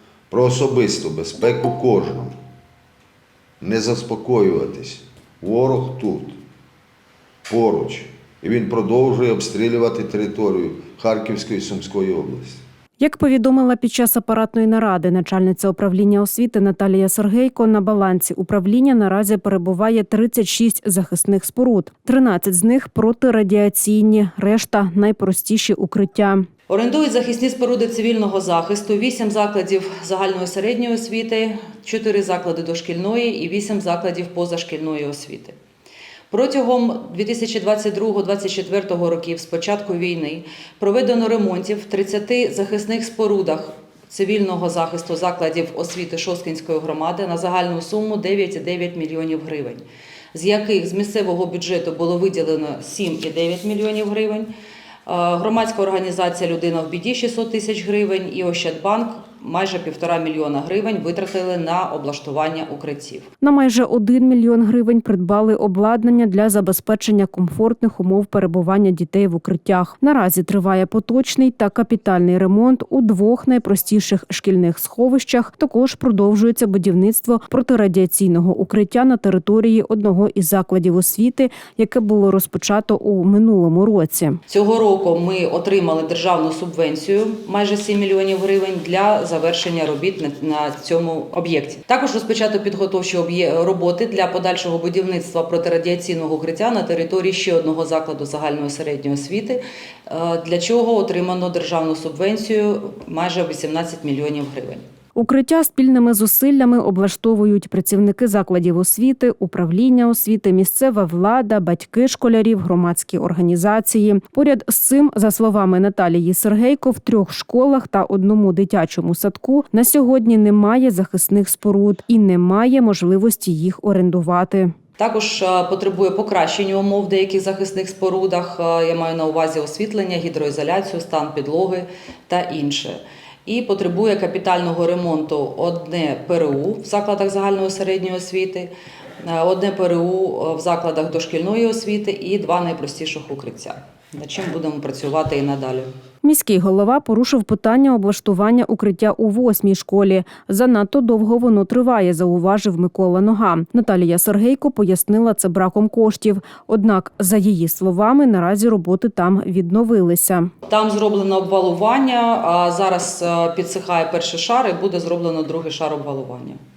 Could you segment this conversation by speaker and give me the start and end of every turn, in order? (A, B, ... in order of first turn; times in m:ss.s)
0:00.3-0:02.4 A
0:03.6-0:06.4 A
0:07.5-0:12.6 A
0:13.0-0:26.5 B
0:26.7-0:35.6 C
0:36.3-0:54.5 C
0:55.1-1:03.3 C
1:03.4-1:24.4 B
1:24.5-1:44.8 C
1:45.2-2:04.7 B
2:05.0-2:25.9 C
2:26.2-2:40.5 B
2:40.7-2:46.6 C